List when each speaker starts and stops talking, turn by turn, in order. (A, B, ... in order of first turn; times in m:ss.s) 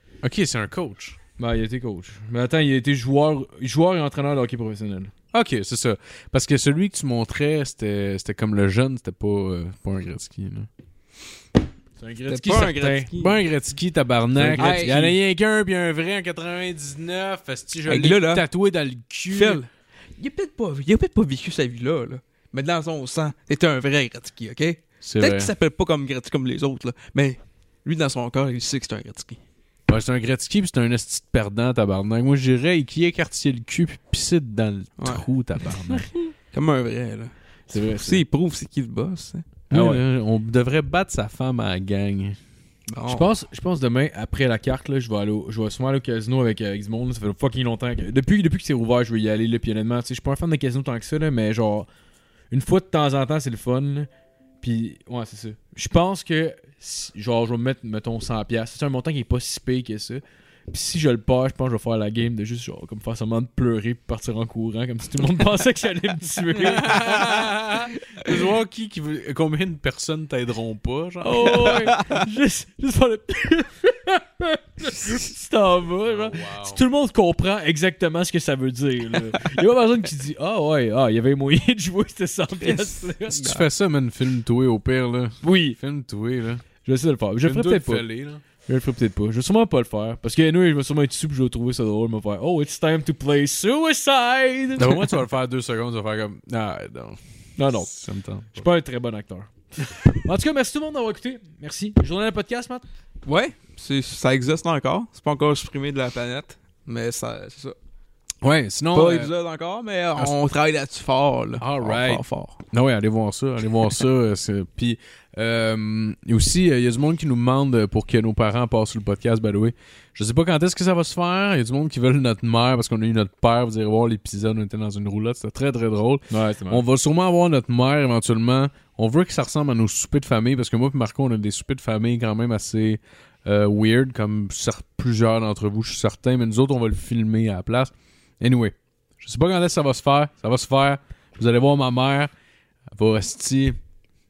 0:00.2-0:01.2 A
0:01.4-0:05.1 B
0:05.3-0:10.7 A
0:12.0-0:13.1 B
0:12.3-0:13.4 C
0:13.2-0:19.6 A
0:14.3-0:15.2 B
0:14.6-0:15.0 C
0:17.9-0:18.4 C
0:19.3-0:29.4 C
0:25.0-0:25.5 A
0:29.9-0:36.1 A
0:35.0-0:39.5 C
0:37.7-0:38.2 B
0:39.7-0:40.0 B
0:39.7-0:42.4 A
0:42.9-0:43.3 C
0:43.1-0:51.9 B
0:52.5-0:54.1 B
0:54.6-1:07.5 B
1:06.6-1:11.9 A
1:11.2-1:23.6 B
1:16.0-1:16.8 A
1:22.6-1:23.6 C
1:23.3-1:26.6 A
1:25.4-1:25.8 B
1:26.8-1:35.1 B
1:27.4-1:28.4 A
1:34.8-1:38.7 A
1:37.6-1:37.9 B
1:38.5-1:42.8 B
1:43.3-1:47.8 C
1:48.4-1:49.3 A
1:48.9-1:52.6 C
1:51.6-2:22.3 A
2:06.3-2:06.8 B
2:22.9-2:23.8 A